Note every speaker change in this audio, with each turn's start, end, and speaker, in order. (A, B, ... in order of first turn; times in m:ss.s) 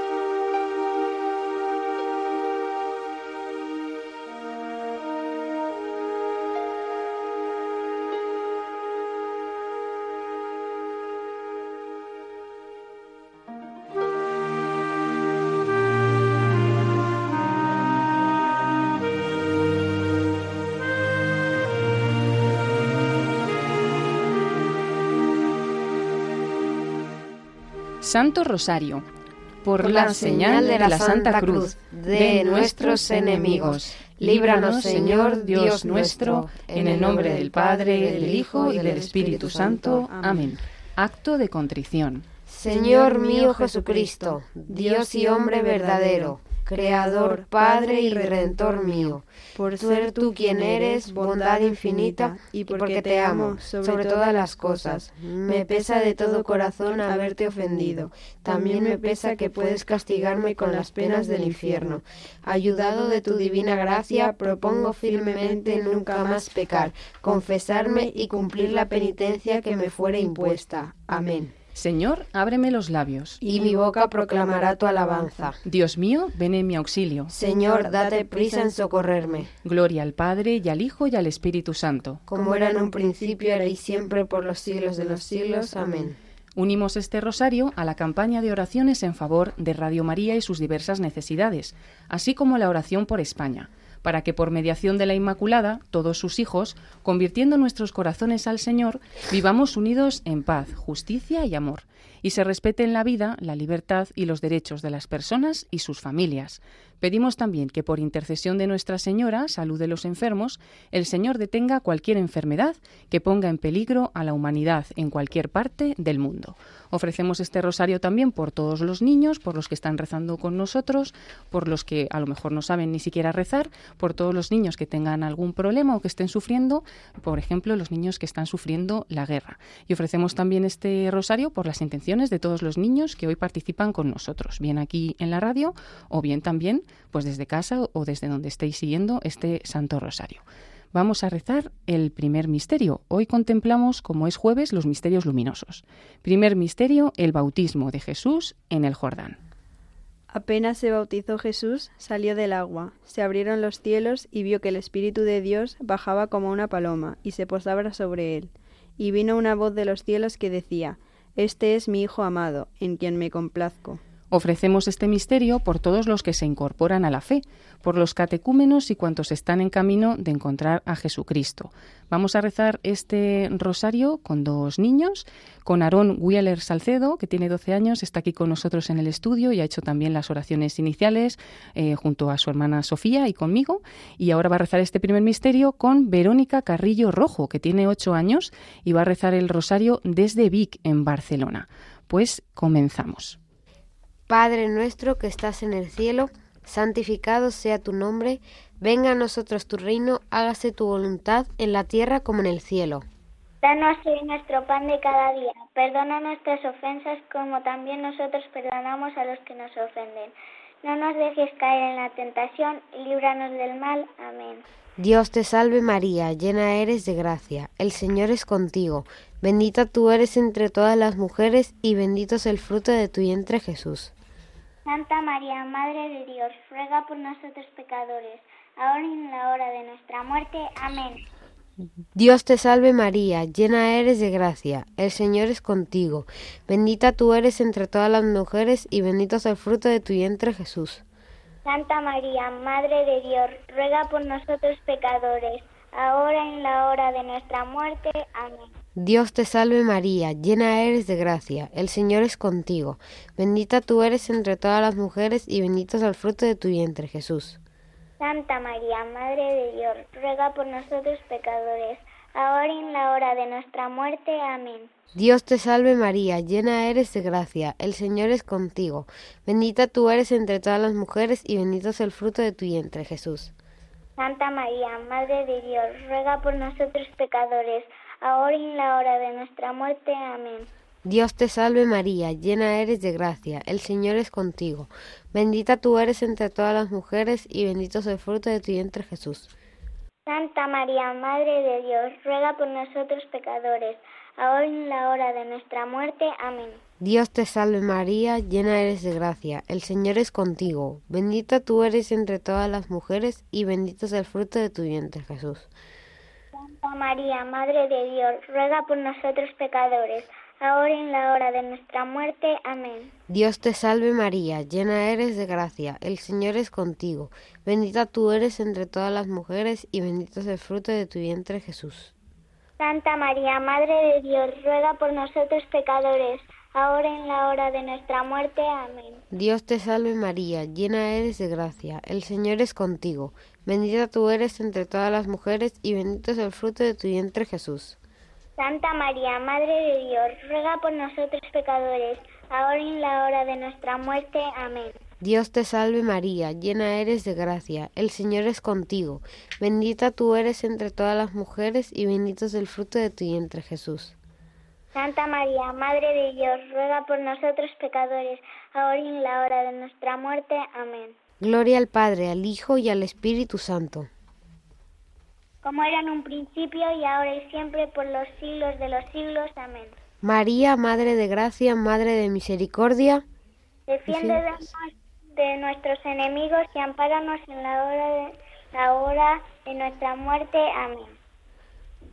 0:28.0-0:29.0 A
0:29.6-0:42.2 A
0:29.8-0:40.0 B
0:34.7-0:35.0 C
0:38.0-0:40.5 C
0:42.5-1:11.5 B
0:42.6-0:49.0 C
0:49.6-1:02.0 C
1:02.9-1:06.9 C
1:07.7-1:09.4 C
1:10.0-1:11.5 C
1:11.8-1:13.4 A
1:13.4-1:15.6 C
1:13.4-1:15.6 B
1:15.7-1:17.3 A
1:17.3-1:19.5 B
1:17.4-1:18.9 C
1:19.6-1:22.2 A
1:22.3-1:26.2 B
1:22.4-1:23.0 C
1:24.8-1:26.1 C
1:26.6-2:29.4 A
2:30.3-2:44.0 C
2:44.3-3:13.4 A
3:14.3-3:23.0 B
3:23.6-3:34.6 D
3:35.0-3:44.1 B
3:44.9-3:51.2 D
3:52.2-4:01.0 B
4:01.7-4:08.7 D
4:09.0-4:17.6 B
4:18.2-4:24.9 D
4:25.2-4:33.5 B
4:34.2-4:40.7 D
4:41.0-4:49.5 B
4:50.3-4:56.8 D
4:57.0-5:05.7 B
5:06.6-5:13.1 D
5:13.3-5:22.1 B
5:22.8-5:29.2 D
5:29.3-5:38.0 B
5:38.6-5:44.9 D
5:45.2-5:54.2 B
5:55.0-6:01.1 D
6:01.4-6:04.1 B
6:05.6-6:09.9 D
6:10.2-6:13.2 B
6:13.9-6:21.1 D
6:14.1-6:14.4 B